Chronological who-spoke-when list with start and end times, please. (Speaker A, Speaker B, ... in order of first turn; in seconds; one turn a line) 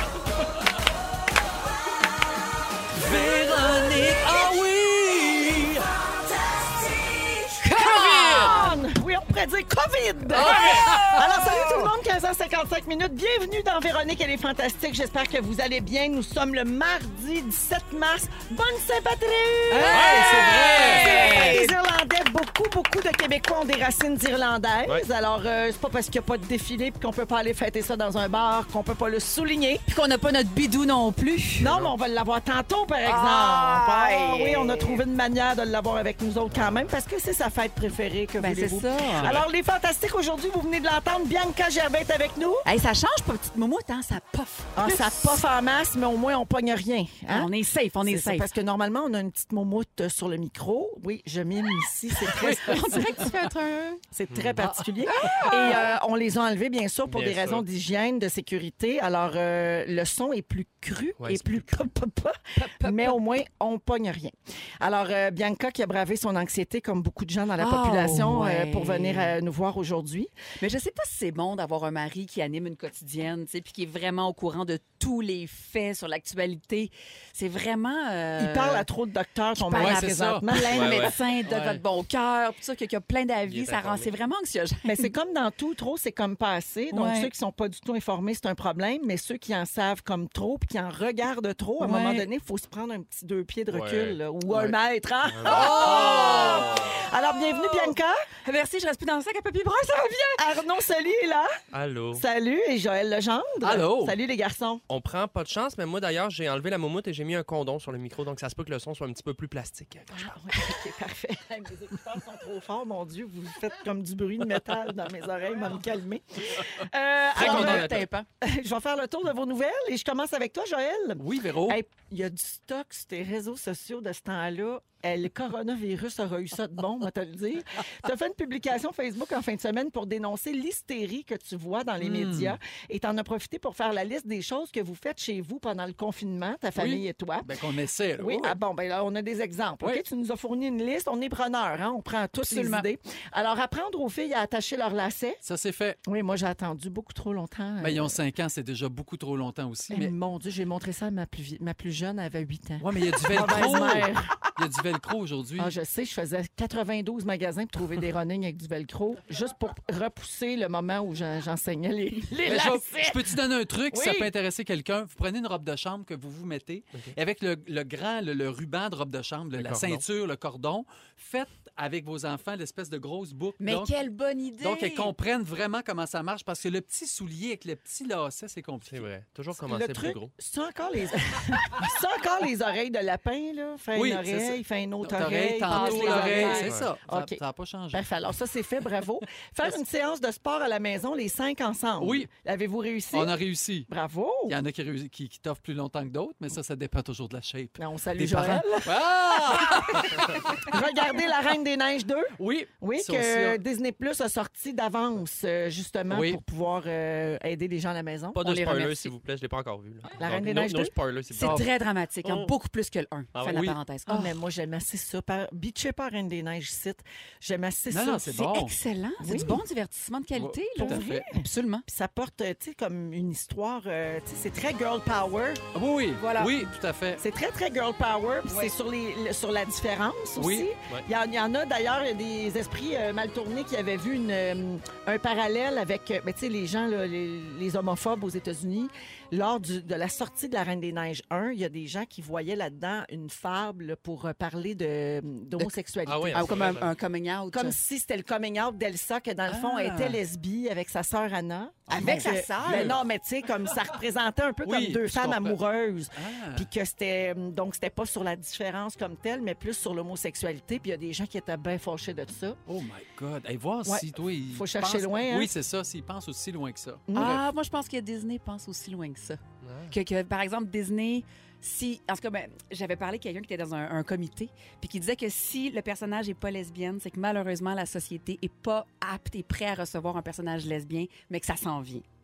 Speaker A: 3.0-5.9
Speaker B: 7.6-8.8
Speaker C: 7.6-29.8
Speaker A: 10.3-11.3
Speaker B: 10.5-11.6
Speaker B: 19.7-21.7
Speaker A: 19.8-21.6
Speaker B: 29.9-31.7
Speaker C: 31.6-42.7
Speaker D: 31.6-31.9
Speaker B: 33.0-35.0
Speaker D: 36.6-36.9
Speaker B: 38.4-39.3
Speaker D: 39.2-39.5
Speaker B: 42.7-45.4
Speaker C: 44.7-53.5
Speaker B: 47.3-48.5
Speaker A: 52.4-52.8
Speaker B: 52.5-54.0
Speaker C: 54.1-70.3
Speaker D: 54.3-54.6
Speaker B: 55.2-55.9
Speaker D: 57.1-57.6
Speaker D: 61.2-61.6
Speaker B: 62.5-63.2
Speaker B: 67.6-69.3
Speaker B: 70.6-78.8
Speaker C: 78.4-81.1
Speaker B: 79.6-85.1
Speaker A: 79.7-80.5
Speaker D: 80.7-81.1
Speaker A: 81.5-81.8
Speaker D: 83.4-84.1
Speaker C: 84.8-98.2
Speaker B: 86.9-87.3
Speaker B: 91.8-92.3
Speaker D: 93.7-94.2
Speaker D: 95.3-97.0
Speaker B: 95.5-97.9
Speaker A: 95.5-96.4
Speaker B: 98.4-100.5
Speaker C: 100.4-101.6
Speaker D: 101.7-102.2
Speaker C: 102.1-104.8
Speaker A: 103.6-104.2
Speaker D: 104.9-110.8
Speaker C: 110.1-137.6
Speaker D: 117.3-118.0
Speaker B: 117.3-118.2
Speaker A: 121.2-121.8
Speaker A: 132.0-132.6
Speaker A: 136.8-138.6
Speaker C: 138.2-145.4
Speaker B: 142.4-142.8
Speaker A: 145.4-146.0
Speaker C: 146.0-148.2
Speaker A: 147.8-150.1
Speaker C: 149.9-154.4
Speaker A: 152.8-155.7
Speaker C: 155.6-163.4
Speaker A: 162.4-173.9
Speaker C: 163.9-164.3
Speaker D: 169.6-170.0
Speaker B: 173.6-175.1
Speaker A: 174.6-179.1
Speaker D: 178.9-180.3
Speaker C: 179.6-187.4
Speaker A: 183.9-188.0
Speaker B: 185.7-186.8
Speaker D: 186.6-186.9
Speaker C: 187.9-193.3
Speaker A: 192.0-192.3
Speaker A: 193.1-193.9
Speaker C: 193.9-194.6
Speaker A: 194.5-200.6
Speaker C: 197.8-200.0
Speaker C: 200.7-208.4
Speaker A: 202.4-203.6
Speaker A: 206.1-206.4
Speaker D: 208.3-211.7
Speaker B: 208.4-209.1
Speaker C: 210.2-210.9
Speaker B: 211.3-214.3
Speaker D: 212.2-212.5
Speaker D: 213.3-213.7
Speaker A: 213.5-213.8
Speaker C: 214.1-218.5
Speaker A: 217.9-218.8
Speaker B: 218.3-221.8
Speaker C: 219.2-219.6
Speaker A: 220.3-221.3
Speaker C: 220.8-225.6
Speaker A: 225.7-227.2
Speaker B: 226.2-226.6
Speaker C: 227.2-246.5
Speaker B: 228.5-228.7
Speaker A: 230.3-230.7
Speaker D: 246.0-246.9
Speaker B: 246.3-247.8
Speaker C: 247.5-262.6
Speaker A: 249.5-250.2
Speaker B: 251.9-253.0
Speaker A: 251.9-253.0
Speaker A: 254.7-255.6
Speaker A: 256.2-256.7
Speaker A: 262.7-267.4
Speaker C: 263.9-265.5
Speaker C: 267.1-267.4
Speaker B: 267.1-282.0
Speaker D: 269.6-269.9